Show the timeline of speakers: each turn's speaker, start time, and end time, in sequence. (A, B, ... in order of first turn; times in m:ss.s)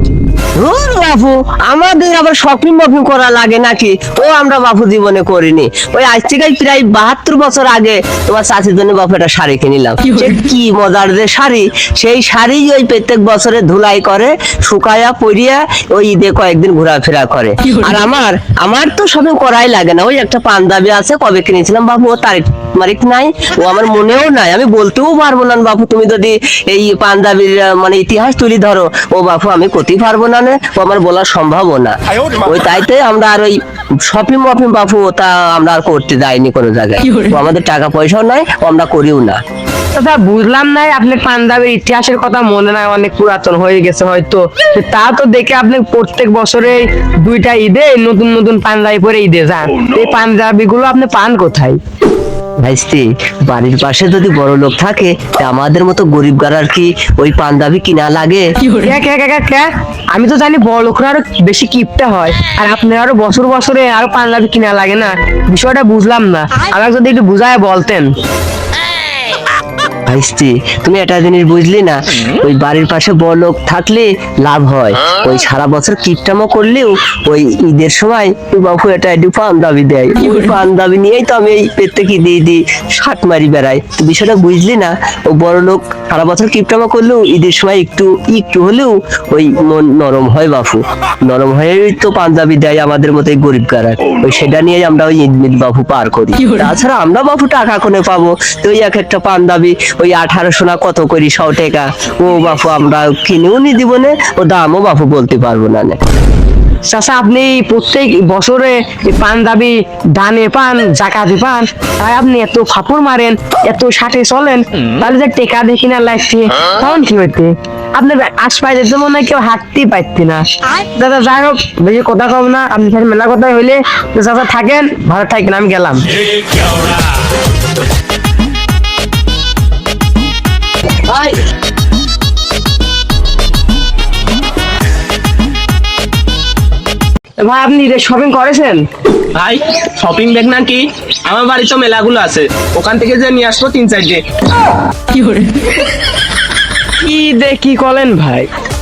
0:00.6-0:33.6 A
0:34.1-0:39.4 A
0:39.9-0:51.8 B
0:52.6-0:58.5 A
0:58.8-1:08.1 B
1:10.1-1:46.0 A
1:46.9-2:00.4 B
2:01.0-2:06.1 B
2:11.1-2:11.4 B
2:17.4-2:18.8 B
2:19.3-2:24.2 C
2:27.0-2:28.5 B